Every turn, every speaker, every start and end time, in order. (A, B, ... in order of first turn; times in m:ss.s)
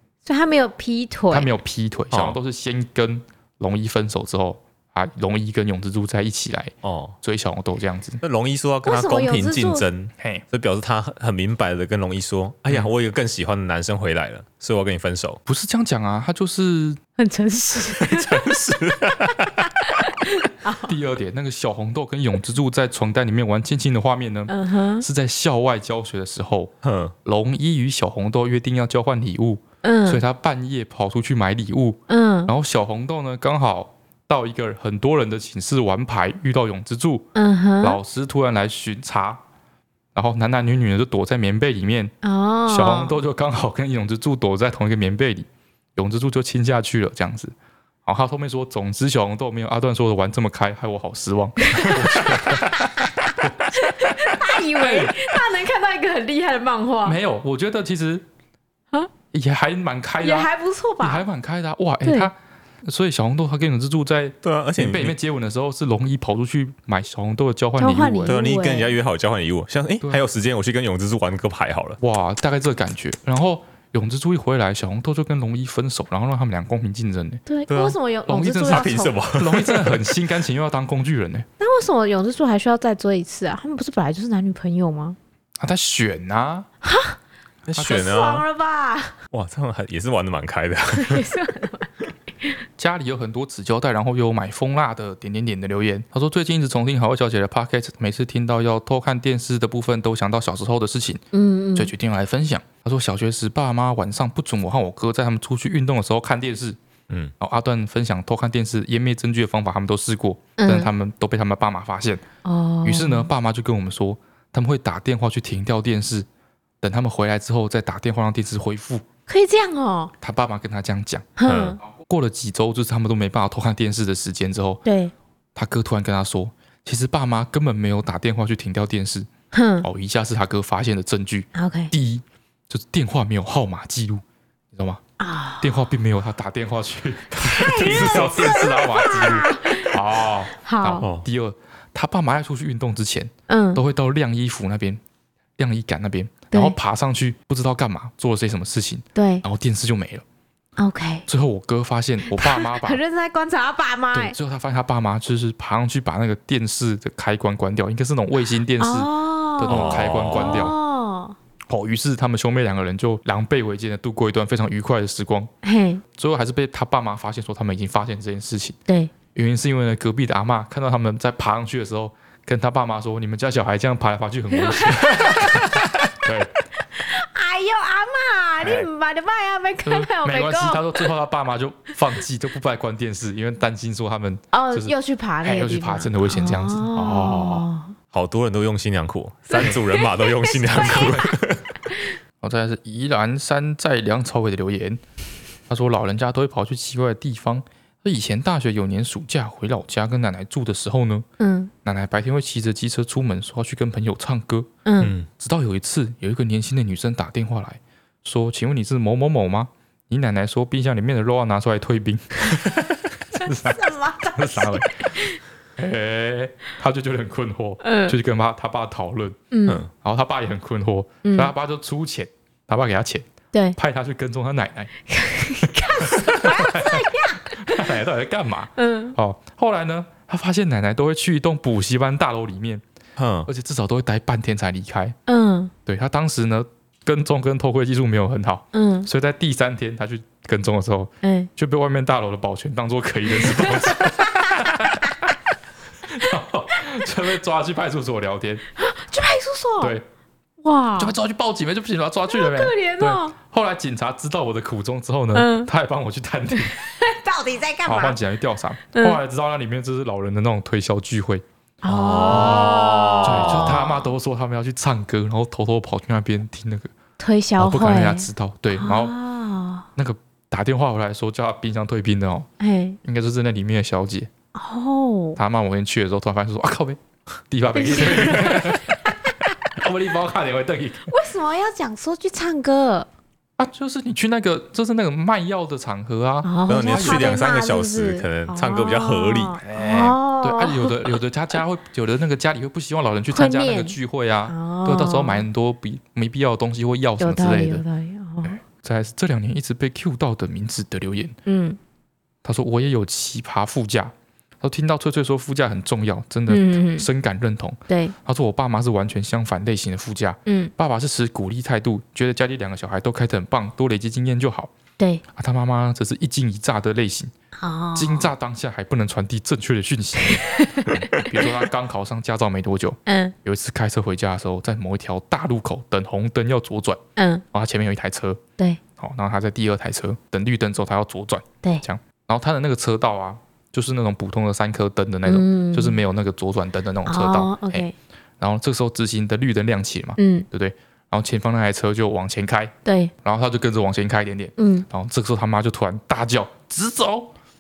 0:00.3-0:01.5 A
0:01.3-0:08.2 B
0:02.1-0:02.4 C
0:06.8-0:07.2 C
0:08.2-0:15.4 C
0:08.8-0:09.8 A
0:10.2-0:10.4 B
0:15.5-0:17.0 B
0:17.2-0:20.9 A
0:18.0-0:19.7 C
0:20.8-0:26.7 B
0:24.5-0:25.1 A
0:26.8-0:27.2 C
0:27.2-0:37.3 B
0:29.8-0:30.2 A
0:32.1-0:32.5 A
0:37.4-0:38.0 A
0:37.8-0:39.4 B
0:40.2-0:42.1 B
0:42.2-0:43.2 A
0:42.7-0:47.5 B
0:48.0-0:55.4 B
0:51.7-0:57.2 A
0:57.0-0:58.2 B
0:59.3-1:00.5 B
1:00.2-1:01.2 A
1:01.0-1:02.3 B
1:02.0-1:02.3 A
1:02.8-1:08.4 B
1:04.4-1:05.2 C
1:07.8-1:08.9 A
1:08.3-1:12.0 C
1:12.0-1:17.4 B
1:17.5-1:19.2 A
1:17.7-1:18.0 C
1:18.3-1:21.5 B
1:18.7-1:20.2 C
1:21.6-1:25.2 A
1:25.6-1:26.7 B
1:26.8-1:27.2 A
1:27.7-1:28.4 C
1:27.8-1:28.0 B
1:27.8-1:29.2 A
1:29.3-1:31.2 C
1:30.9-1:32.6 A
1:32.8-1:41.2 B
1:41.3-1:41.9 A
1:41.8-1:46.8 B
1:47.4-1:52.2 B
1:50.6-1:50.9 A
1:52.4-1:53.3 A
1:52.8-1:56.3 B
1:56.8-1:59.0 B
1:59.3-2:00.1 A
2:00.2-2:01.3 B
2:01.4-2:01.8 A
2:01.5-2:01.8 C
2:01.8-2:04.8 B
2:04.9-2:05.1 A
2:05.6-2:09.3 B
2:09.5-2:09.9 A
2:09.8-2:14.2 B
2:11.6-2:11.9 A
2:14.7-2:15.0 B
2:15.2-2:15.8 A
2:15.6-2:25.0 B
2:17.4-2:20.0 A
2:17.5-2:18.6 C
2:20.5-2:21.1 A
2:21.0-2:21.3 C
2:23.5-2:23.8 A
2:25.6-2:30.2 B
2:29.2-2:29.4 A
2:30.8-2:31.3 A
2:31.3-2:33.0 B
2:32.3-2:34.4 A
2:34.1-2:40.8 B
2:38.8-2:41.4 A
2:39.7-2:40.7 C
2:41.7-2:45.5 B
2:45.6-2:46.0 A
2:46.2-2:48.8 B
2:49.3-2:56.6 B
2:54.5-2:56.2 A
2:56.9-3:01.1 A
2:58.6-2:58.9 B
2:59.9-3:07.7 B
3:04.5-3:07.9 A
3:08.1-3:11.6 C
3:09.5-3:11.3 A
3:10.8-3:11.3 B
3:12.4-3:15.0 B
3:15.7-3:21.2 B
3:21.4-3:21.7 A
3:21.8-3:24.7 B
3:24.9-3:25.1 A
3:25.0-3:25.3 C
3:25.3-3:35.1 B
3:33.4-3:35.4 A
3:35.8-3:44.9 B
3:37.8-3:38.2 A
3:39.5-3:39.8 A
3:41.2-3:41.5 A
3:45.1-3:47.9 A
3:46.0-3:52.8 B
3:48.8-3:49.2 A
3:53.2-3:53.5 C
3:53.5-3:55.2 B
3:55.3-3:55.7 A
3:55.9-4:05.3 B
3:58.7-3:59.1 A
4:01.2-4:01.5 A
4:03.4-4:05.1 A
4:06.1-4:08.6 B
4:08.8-4:09.9 A
4:10.6-4:11.1 A
4:11.0-4:16.8 B
4:12.3-4:13.3 A
4:15.3-4:15.7 A
4:16.5-4:18.2 A
4:17.9-4:21.4 B
4:18.9-4:19.2 A
4:21.8-4:24.1 A
4:21.9-4:23.8 C
4:22.2-4:26.9 B
4:27.2-4:29.9 A
4:27.6-4:29.1 B
4:30.0-4:32.5 B
4:32.6-4:33.0 A
4:33.0-4:34.3 B
4:34.6-4:35.4 A
4:35.4-4:37.0 B
4:37.5-4:39.0 B
4:37.7-4:39.6 A
4:39.8-4:41.1 B
4:41.1-4:43.1 A
4:43.6-4:47.4 B
4:46.4-4:51.2 A
4:46.7-4:49.6 C
4:49.6-4:57.8 B
4:53.3-4:54.0 A
4:54.5-4:55.4 A
4:57.2-4:58.6 A
4:58.4-5:01.4 B
5:01.5-5:01.8 A
5:02.4-5:14.7 B
5:06.5-5:07.1 A
5:07.9-5:08.1 A
5:15.3-5:17.3 B
5:17.6-5:18.3 A
5:18.0-5:27.0 B
5:20.4-5:21.4 A
5:23.1-5:23.3 A
5:27.2-5:27.4 A
5:27.5-5:28.4 B
5:29.0-5:37.9 B
5:35.2-5:36.0 A
5:37.1-5:37.9 A
5:38.4-5:47.3 B
5:40.2-5:40.5 A
5:42.8-5:43.1 A
5:44.6-5:44.9 A